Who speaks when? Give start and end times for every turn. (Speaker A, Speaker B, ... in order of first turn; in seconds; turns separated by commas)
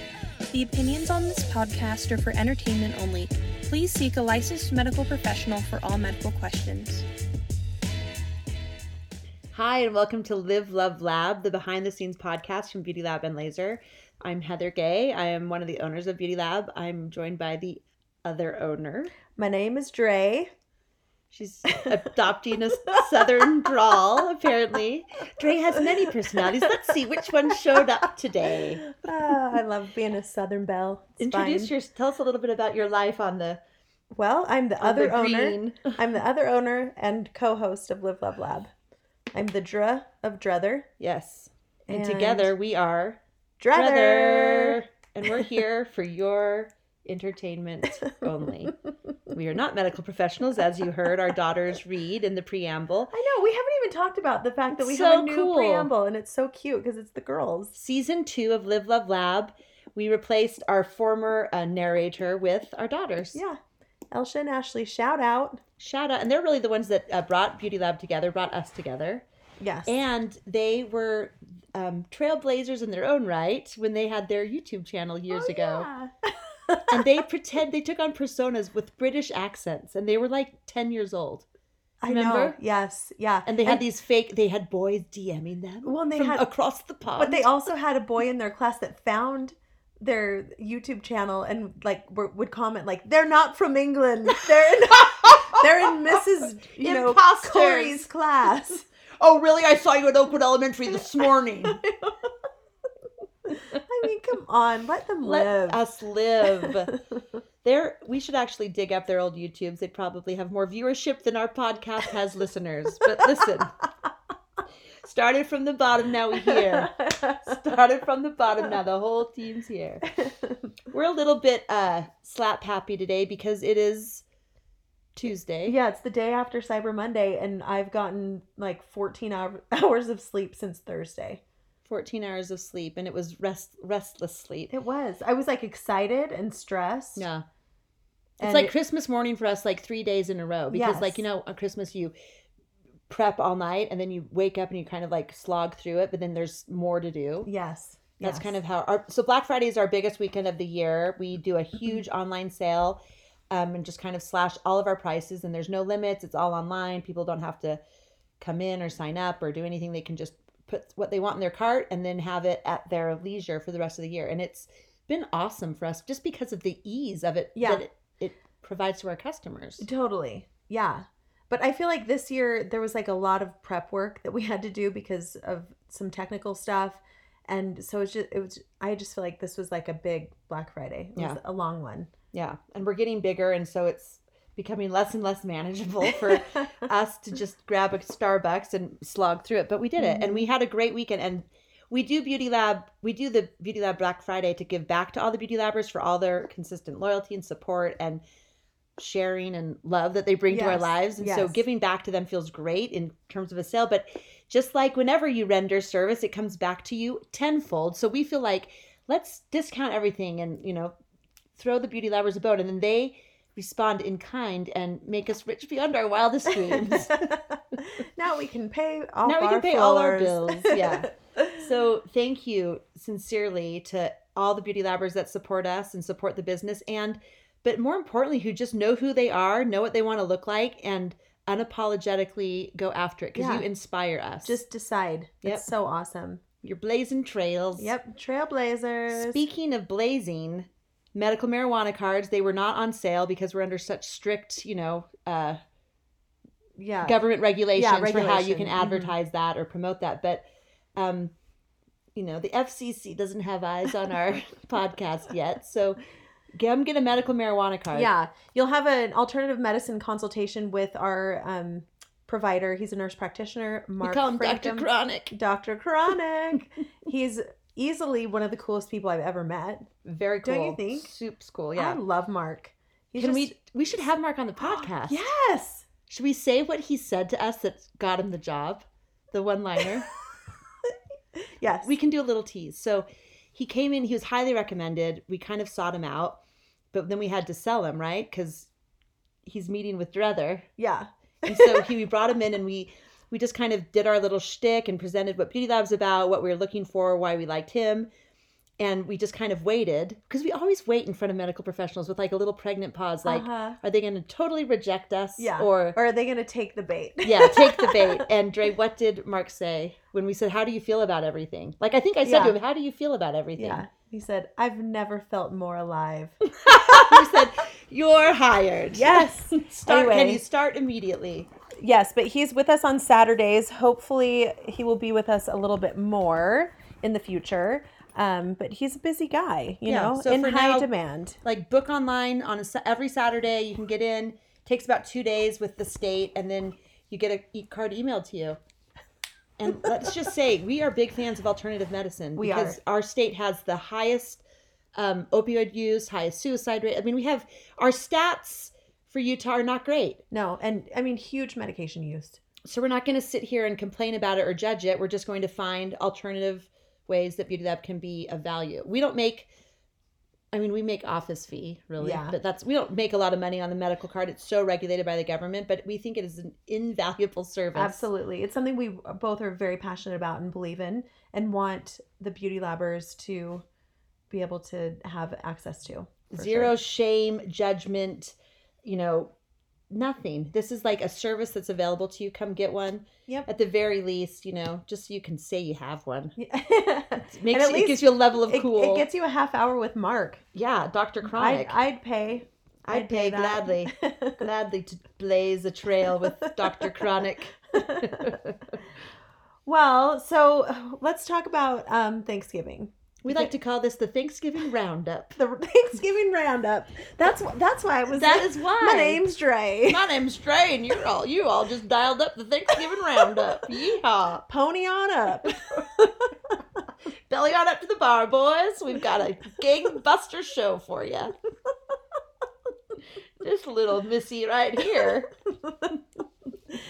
Speaker A: 0.5-7.0, Speaker B: 9.5-19.1, Speaker C: 19.3-20.5, Speaker B: 21.3-28.9, Speaker C: 28.8-31.7, Speaker B: 31.2-33.6, Speaker C: 34.1-38.7, Speaker B: 34.8-36.0, Speaker C: 39.3-40.9, Speaker B: 41.0-43.2, Speaker C: 41.9-42.5, Speaker C: 43.6-44.8, Speaker B: 43.7-48.7, Speaker B: 49.3-53.1, Speaker C: 53.1-57.8, Speaker B: 54.7-55.9, Speaker B: 57.8-63.4, Speaker C: 64.1-65.6, Speaker B: 65.8-69.2, Speaker C: 69.6-70.0, Speaker B: 69.8-75.9, Speaker C: 75.3-77.1, Speaker B: 76.9-81.4, Speaker C: 82.0-83.8, Speaker B: 82.0-82.5, Speaker B: 83.5-87.5, Speaker C: 85.8-86.5, Speaker C: 87.1-98.9, Speaker B: 95.2-96.2, Speaker B: 96.8-98.0, Speaker B: 99.2-101.8, Speaker C: 103.5-105.8, Speaker B: 105.2-107.0, Speaker C: 106.6-107.0, Speaker B: 107.6-113.7, Speaker B: 115.0-120.0, Speaker C: 116.4-117.5, Speaker C: 120.1-120.6, Speaker B: 120.9-124.2, Speaker B: 125.1-125.8, Speaker C: 125.6-131.4, Speaker B: 131.8-134.7, Speaker C: 134.7-137.3, Speaker B: 137.2-137.4, Speaker C: 138.4-138.7, Speaker B: 138.4-142.1, Speaker C: 140.7-141.2, Speaker B: 143.1-147.5, Speaker C: 147.4-148.5, Speaker B: 148.2-153.0, Speaker B: 153.5-157.8, Speaker B: 158.4-169.8, Speaker C: 167.6-167.8, Speaker C: 169.8-182.1, Speaker B: 182.3-198.2, Speaker C: 186.3-186.7, Speaker C: 190.0-190.5, Speaker B: 199.0-210.9, Speaker C: 200.5-201.6, Speaker B: 211.5-217.4, Speaker C: 216.7-221.0, Speaker B: 219.2-234.6, Speaker C: 233.3-233.7, Speaker C: 234.4-236.4, Speaker B: 236.6-237.9, Speaker C: 237.8-239.4, Speaker B: 239.1-245.6, Speaker C: 246.8-247.2, Speaker B: 247.0-250.4, Speaker C: 247.7-249.1, Speaker B: 250.9-251.3, Speaker B: 252.1-256.0, Speaker B: 256.5-258.1, Speaker C: 257.9-269.9, Speaker B: 264.0-265.3, Speaker B: 270.0-272.0, Speaker C: 270.4-271.1, Speaker C: 271.7-273.5, Speaker B: 273.2-275.2, Speaker C: 274.6-275.8, Speaker B: 276.1-280.1, Speaker C: 281.4-281.9, Speaker B: 281.8-286.4, Speaker B: 286.9-288.7, Speaker B: 289.4-290.7, Speaker C: 290.8-291.9, Speaker B: 291.4-298.1, Speaker B: 298.8-305.9, Speaker C: 303.2-303.8, Speaker C: 305.4-308.2, Speaker B: 307.2-313.9, Speaker C: 312.2-312.6, Speaker C: 313.6-317.3, Speaker B: 316.6-321.5, Speaker C: 318.9-320.4, Speaker C: 321.8-331.4, Speaker B: 329.9-330.9, Speaker B: 331.4-338.6, Speaker B: 339.6-344.4, Speaker C: 342.4-342.8, Speaker B: 344.9-350.2, Speaker C: 350.3-352.4, Speaker B: 352.6-359.5, Speaker B: 360.5-368.0, Speaker C: 362.0-362.4, Speaker C: 367.7-373.6, Speaker C: 374.3-376.7, Speaker B: 376.3-379.3, Speaker B: 379.9-386.3, Speaker C: 386.4-390.4, Speaker B: 387.3-389.1, Speaker B: 390.5-391.8, Speaker C: 391.2-394.4, Speaker B: 392.9-398.8, Speaker C: 396.4-397.0, Speaker C: 397.7-398.4, Speaker C: 399.6-403.5, Speaker B: 403.2-405.4, Speaker C: 405.4-410.0, Speaker B: 408.1-409.3, Speaker B: 409.9-414.4, Speaker C: 414.5-416.3, Speaker B: 417.3-421.3, Speaker B: 423.4-425.3